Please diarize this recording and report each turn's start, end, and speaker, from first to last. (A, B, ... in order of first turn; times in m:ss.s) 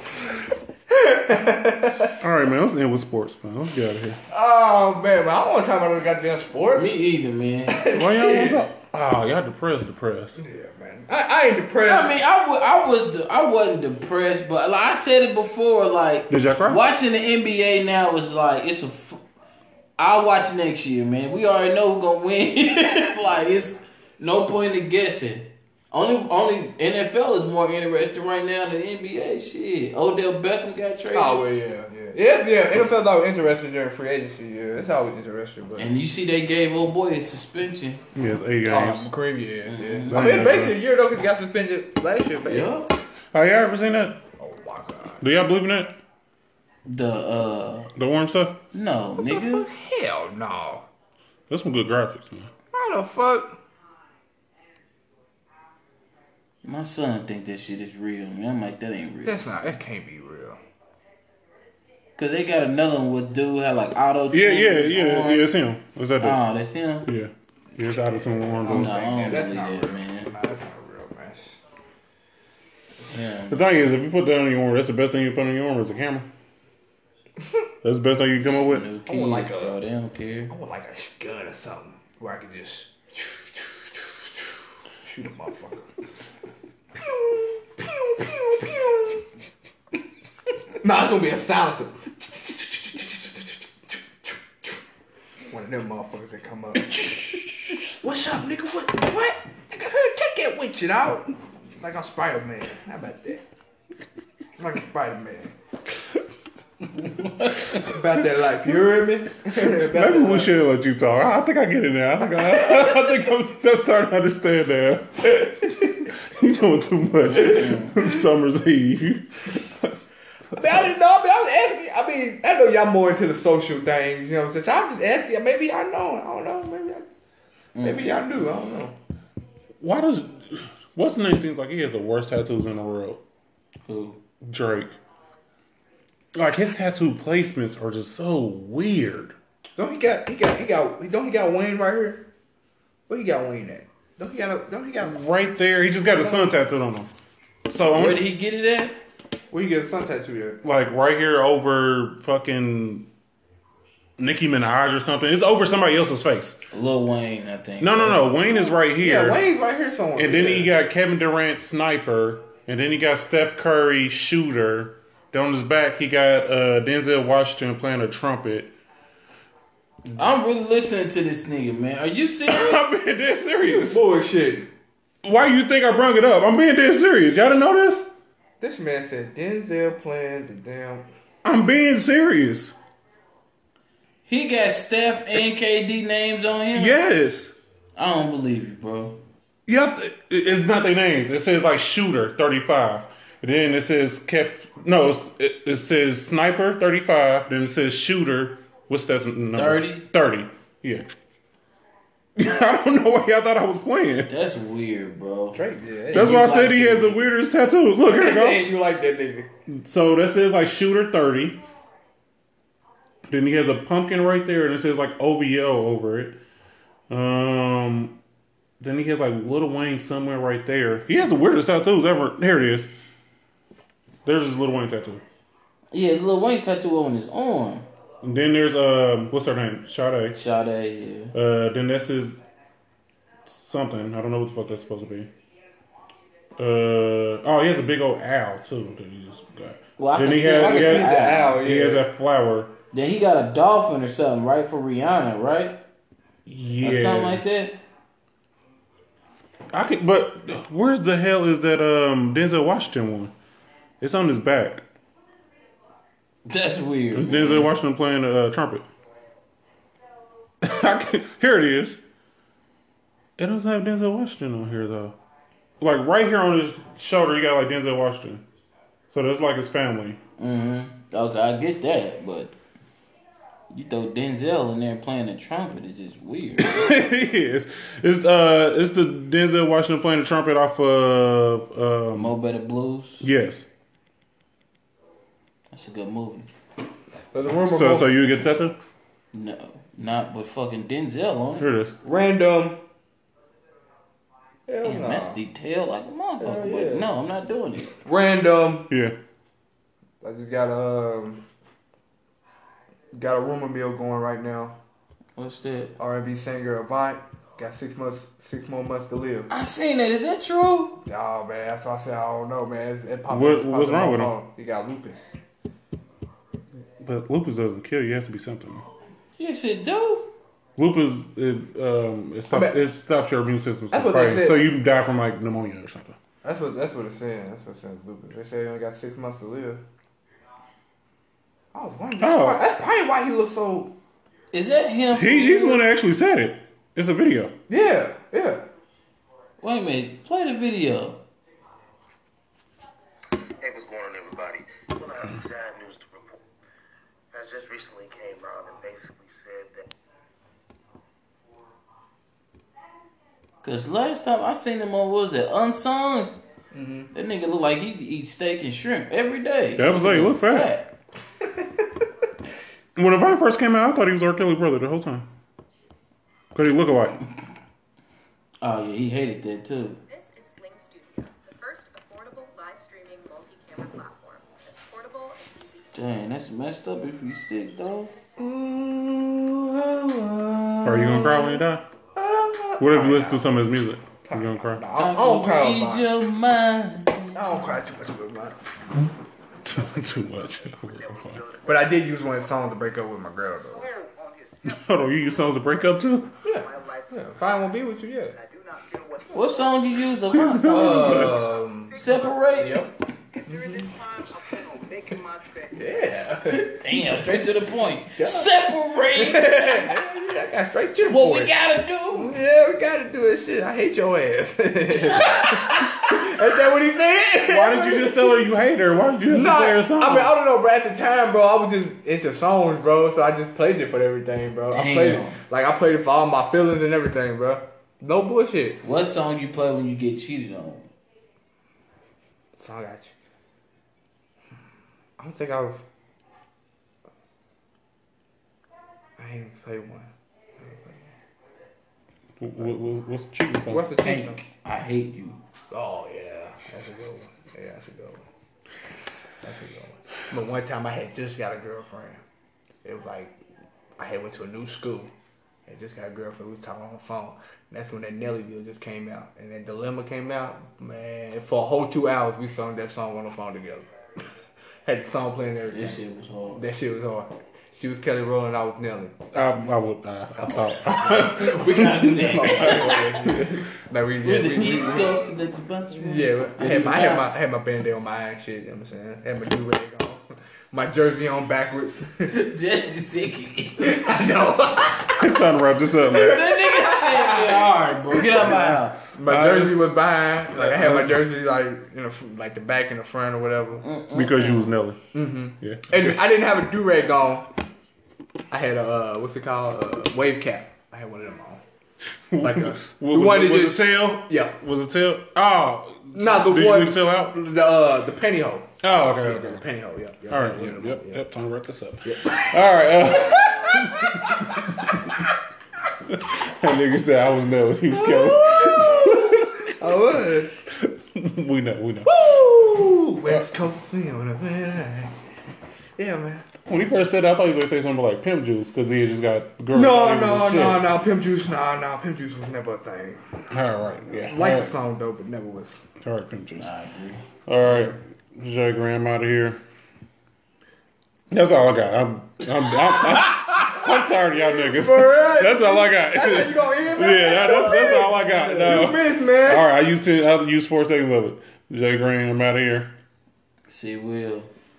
0:00.9-0:02.2 A
0:02.2-0:04.2 B
0:04.3-0:06.9 A
0:06.8-0:07.9 C
0:07.7-0:08.6 A
0:07.9-0:10.4 B
0:10.4-0:12.2 A
0:11.8-0:19.2 C
0:16.3-0:16.8 B
0:20.0-0:31.4 C
0:31.1-0:35.9 A
0:35.8-0:38.0 C
0:38.1-0:39.1 B
0:38.7-0:42.9 A
0:39.7-0:40.5 C
0:40.1-0:40.8 B
0:42.5-0:42.9 C
0:43.3-0:44.2 B
0:44.4-0:45.2 A
0:45.2-0:46.0 B
0:46.9-0:47.9 C
0:48.0-0:48.6 B
0:48.7-0:49.7 C
0:49.2-0:50.9 A
0:51.5-0:52.5 B
0:52.7-0:53.6 A
0:56.6-0:59.8 C
0:59.2-1:00.6 A
1:02.2-1:05.6 C
1:04.3-1:06.4 B
1:06.2-1:07.1 C
1:07.1-1:08.9 B
1:08.6-1:11.6 A
1:08.7-1:10.3 C
1:13.1-1:13.6 C
1:13.5-1:16.3 B
1:17.8-1:18.9 B
1:18.6-1:20.5 C
1:19.1-1:19.8 A
1:20.5-1:24.3 A
1:25.0-1:25.9 A
1:27.0-1:29.2 A
1:30.8-1:34.8 A
1:35.5-1:43.4 A
1:44.6-1:45.5 A
1:47.7-1:50.6 A
1:49.6-2:00.0 B
1:57.3-1:58.0 C
2:00.6-2:07.1 A
2:00.6-2:00.8 B
2:07.8-2:08.1 C
2:07.8-2:09.0 A
2:09.8-2:13.2 B
2:13.9-2:14.2 C
2:14.4-2:15.0 B
2:16.3-2:19.4 B
2:19.8-2:22.2 A
2:23.1-2:25.3 A
2:25.0-2:27.1 B
2:26.2-2:26.5 A
2:27.7-2:28.3 B
2:27.9-2:29.0 C
2:29.5-2:30.6 A
2:30.6-2:33.1 B
2:34.2-2:36.6 B
2:36.7-2:38.3 C
2:37.8-2:39.4 B
2:38.6-2:40.7 A
2:40.2-2:48.7 B
2:50.1-2:52.8 C
2:52.5-2:54.0 B
2:53.6-2:54.7 A
2:55.2-2:58.1 B
2:58.6-3:01.1 A
3:01.4-3:02.8 B
3:04.3-3:07.0 C
3:06.8-3:07.5 B
3:08.0-3:09.2 C
3:09.7-3:21.1 B
3:19.6-3:20.0 C
3:22.4-3:24.3 B
3:24.3-3:27.3 C
3:25.6-3:26.4 A
3:26.1-3:28.7 B
3:28.0-3:29.5 A
3:29.7-3:31.6 B
3:33.3-3:36.4 B
3:37.1-3:38.2 B
3:38.8-3:42.9 B
3:44.2-3:45.2 B
3:45.9-3:47.9 C
3:48.2-3:50.4 B
3:50.3-3:51.4 C
3:51.3-3:52.4 B
3:53.4-3:55.3 B
3:56.6-4:02.7 B
4:00.0-4:01.6 C
4:00.5-4:02.1 A
4:02.9-4:05.8 C
4:06.5-4:07.4 B
4:06.8-4:07.8 C
4:09.7-4:13.3 B
4:14.0-4:14.8 B
4:16.5-4:17.7 C
4:17.1-4:18.9 B
4:20.6-4:22.0 B
4:23.4-4:25.2 B
4:25.8-4:28.4 B
4:29.1-4:30.2 B
4:30.4-4:32.6 C
4:33.7-4:37.0 C
4:36.6-4:42.3 B
4:42.1-4:43.3 C
4:43.2-4:43.7 B
4:45.7-4:46.5 C
4:47.3-4:48.1 A
4:47.7-4:48.8 B
4:49.3-4:51.7 C
4:51.6-4:52.0 B
4:52.0-4:52.8 A
4:54.7-4:55.4 A
4:54.8-4:58.0 C
4:56.4-4:57.1 A
4:58.0-4:58.9 A
4:58.9-4:59.2 B
5:00.2-5:01.4 A
5:03.1-5:04.8 A
5:05.4-5:06.0 C
5:06.0-5:09.5 A
5:09.5-5:11.0 C
5:11.0-5:15.3 A
5:13.3-5:14.3 B
5:17.0-5:18.9 B
5:19.4-5:20.3 C
5:20.8-5:26.2 B
5:22.5-5:22.8 A
5:23.9-5:24.7 A
5:26.4-5:29.8 A
5:31.7-5:33.9 A
5:32.2-5:32.6 B
5:34.5-5:35.8 C
5:35.1-5:37.5 B
5:37.7-5:38.6 A
5:39.6-5:41.2 C
5:43.6-5:46.4 D
5:47.3-5:49.8 D
5:53.6-5:56.4 C
5:56.7-5:57.1 A
5:57.1-6:00.9 C
5:59.8-6:00.7 B
6:03.0-6:05.3 B
6:06.5-6:07.2 B
6:08.6-6:10.0 C
6:10.1-6:15.9 E
6:15.9-6:18.1 C
6:18.4-6:21.6 A
6:20.8-6:21.9 B
6:22.2-6:23.5 A
6:22.8-6:24.8 B
6:24.2-6:26.1 A
6:25.0-6:27.7 C
6:27.4-6:28.6 A
6:29.6-6:31.4 B
6:31.6-6:34.0 A
6:33.8-6:34.6 D
6:34.6-6:36.3 B
6:36.4-6:38.4 A
6:36.8-6:37.3 D
6:38.4-6:39.9 D
6:39.3-6:42.9 C
6:40.3-6:41.5 B
6:40.6-6:42.9 A
6:42.0-6:42.8 D
6:43.4-6:45.7 D
6:43.5-6:43.9 A
6:45.7-6:46.8 A
6:46.5-6:50.0 C
6:48.2-6:48.5 A
6:49.1-6:51.6 A
6:51.0-6:52.3 C
6:52.1-6:58.4 A
6:55.1-6:55.9 C
6:57.5-7:00.4 B
6:59.3-7:08.8 A
7:04.7-7:05.4 C
7:08.8-7:10.9 C
7:12.6-7:13.1 A
7:15.2-7:15.8 A
7:19.2-7:21.1 A
7:22.4-7:23.9 B
7:23.7-7:24.4 A
7:24.0-7:25.4 C
7:25.7-7:28.2 A
7:29.4-7:32.2 A
7:32.8-7:33.4 A
7:34.0-7:35.1 A
7:35.7-7:43.9 A
7:44.8-7:46.0 A
7:45.7-7:46.6 C
7:46.6-7:49.2 A
7:49.3-7:53.5 B
7:50.4-7:55.3 A
7:51.1-7:53.1 C
7:54.2-7:57.4 C
7:56.0-8:02.4 A
8:02.3-8:04.1 C
8:03.8-8:05.4 A
8:05.1-8:06.4 B
8:06.1-8:13.8 A
8:06.2-8:09.0 C
8:09.2-8:09.8 B
8:10.5-8:11.2 B
8:13.8-8:14.7 C
8:14.1-8:15.0 B
8:15.1-8:17.5 A
8:15.6-8:16.2 B
8:18.5-8:21.6 A
8:22.3-8:27.4 B
8:22.4-8:24.6 A
8:26.1-8:31.2 A
8:28.8-8:29.6 B
8:30.3-8:35.2 B
8:32.0-8:32.6 A
8:33.3-8:35.1 A
8:36.0-8:39.8 B
8:37.9-8:40.5 A
8:40.7-8:42.1 B
8:42.1-8:45.1 A
8:46.0-8:46.5 A
8:46.7-8:50.9 B
8:49.7-8:53.2 A
8:53.5-8:54.7 B
8:54.1-8:55.8 A
8:56.0-8:56.7 B
8:56.6-8:57.2 C
8:57.5-8:59.6 B
9:01.3-9:12.9 B
9:04.6-9:09.6 A
9:13.7-9:14.5 C